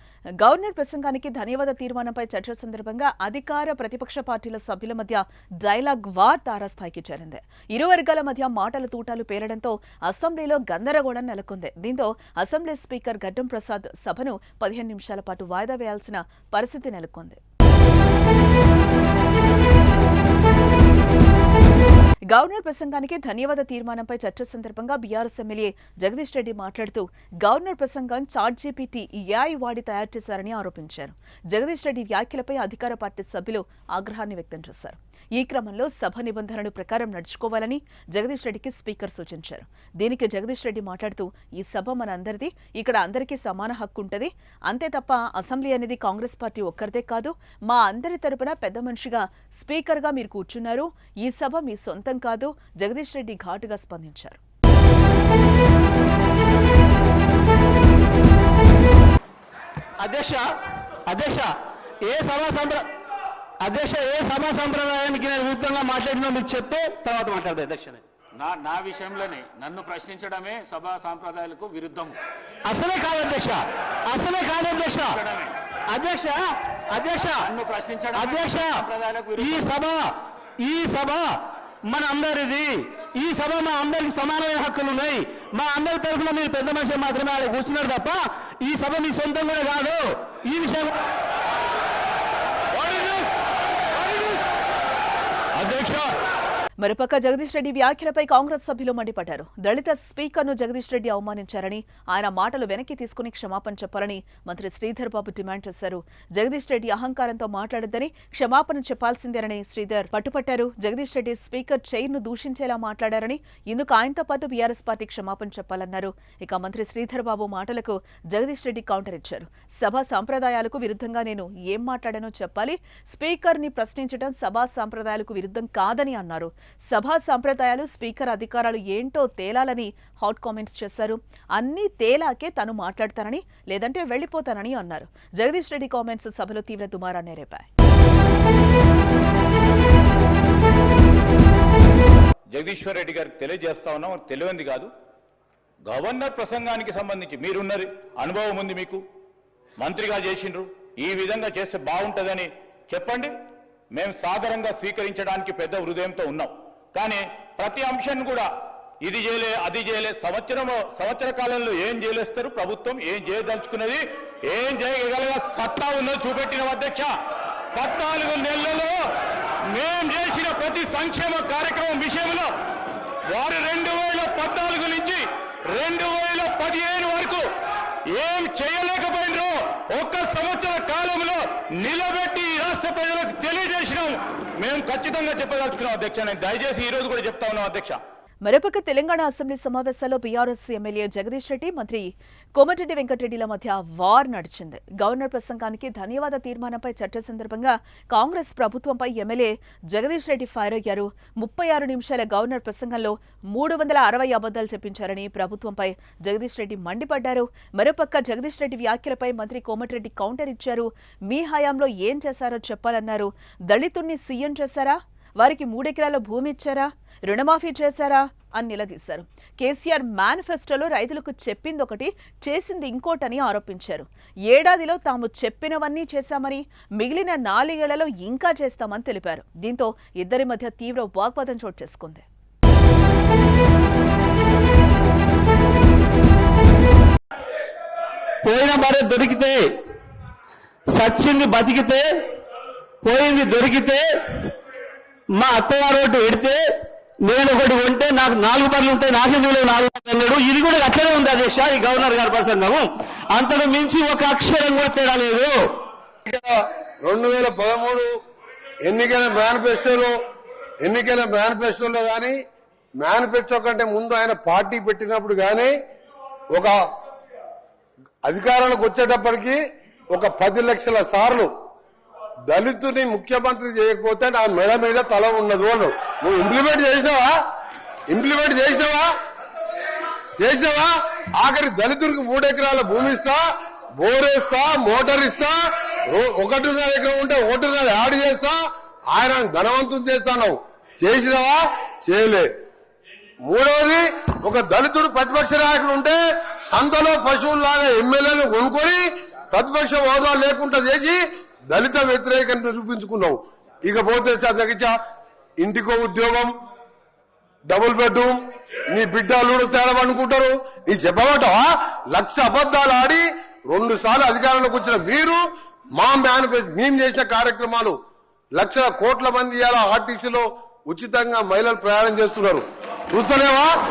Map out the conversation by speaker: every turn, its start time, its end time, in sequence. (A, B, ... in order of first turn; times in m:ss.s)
0:00.4-0:17.4 A
0:22.3-0:54.4 A
1:00.0-1:00.5 B
1:01.1-1:02.9 B
1:03.6-1:08.0 B
1:08.3-1:12.2 C
1:12.7-1:15.2 B
1:15.1-1:15.5 C
1:15.9-1:17.5 B
1:17.4-1:19.7 C
1:18.1-1:30.9 B
1:32.7-1:33.2 D
1:35.6-1:36.1 D
1:36.8-2:17.7 A
2:22.5-2:24.9 D
2:25.9-2:29.0 D
2:29.8-2:33.3 D
2:33.9-2:38.5 D
2:39.0-2:47.1 D
2:47.7-2:48.9 D
2:49.7-2:52.5 D
2:53.3-2:57.4 D
2:58.1-3:08.0 D
3:08.4-3:52.2 A
3:58.4-3:59.6 B
4:00.9-4:02.1 B
4:03.0-4:04.5 B
4:05.3-4:06.6 B
4:07.2-4:15.7 B
4:16.2-4:18.1 E
4:18.8-4:20.1 E
4:20.8-4:22.4 E
4:23.0-4:25.7 E
4:26.5-4:26.8 E
4:28.2-4:29.6 E
4:30.1-4:31.5 E
4:32.5-4:37.3 E
4:38.1-4:39.1 E
4:40.4-4:43.4 E
4:44.0-4:45.6 E
4:46.1-4:52.5 E
4:53.4-4:56.2 E
4:56.7-5:04.9 E
5:05.6-5:06.5 E
5:07.7-5:08.4 E
5:08.9-5:15.4 E
5:16.0-5:18.0 E
5:18.6-5:23.7 E